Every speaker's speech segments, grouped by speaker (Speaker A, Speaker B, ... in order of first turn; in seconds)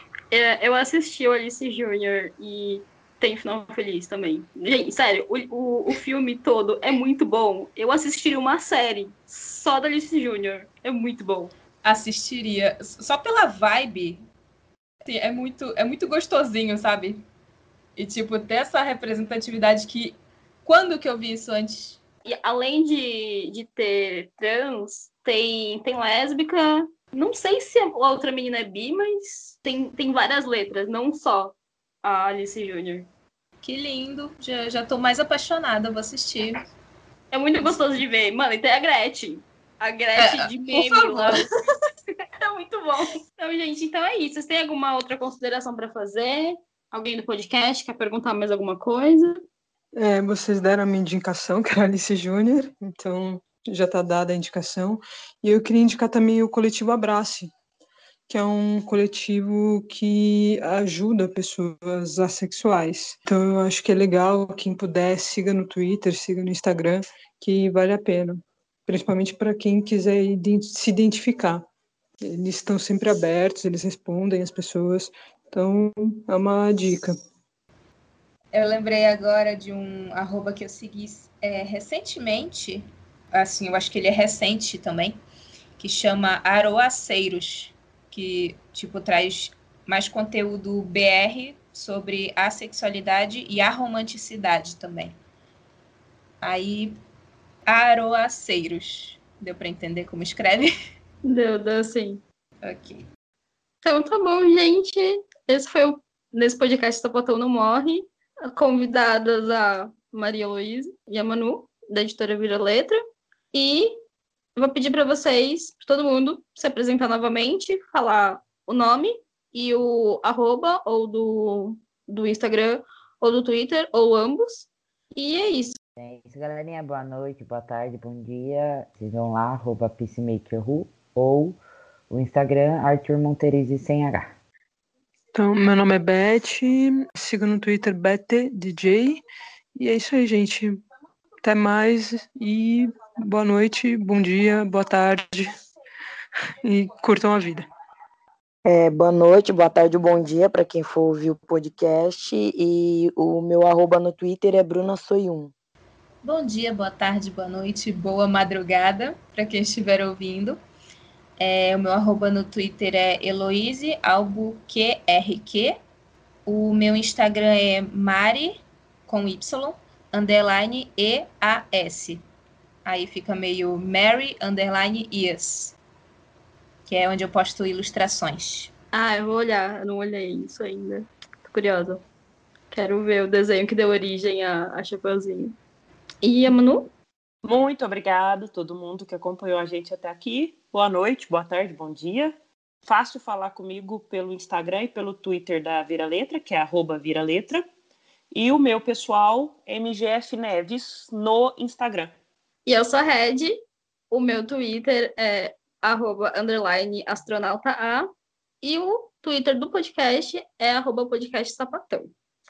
Speaker A: 0.3-11.5, 22.2-33.1, 37.3-41.7, 42.4-49.4, 101.2-102.2, 103.8-113.0, 113.5-113.9, 114.5-125.8, 178.9-182.0, 182.7-185.6, 186.2-186.9, 202.7-203.6, 204.1-208.1, 208.6-212.1
Speaker B: 11.8-14.2, 15.0-17.2, 17.9-22.0, 33.6-36.6, 40.2-41.5, 78.5-85.1, 85.8-95.1, 96.4-96.9, 97.7-100.7, 102.6-103.0, 156.2-160.6, 161.4-165.8, 166.4-172.2, 172.8-175.8, 176.9-178.7
Speaker C: 50.0-57.5, 58.3-71.7, 72.2-77.2, 135.3-139.2, 139.8-140.8, 141.4-145.5, 146.6-147.7
Speaker D: 126.0-131.6, 132.1-134.3
Speaker E: 148.6-155.5
Speaker F: 187.4-192.3, 192.8-197.6, 198.3-202.1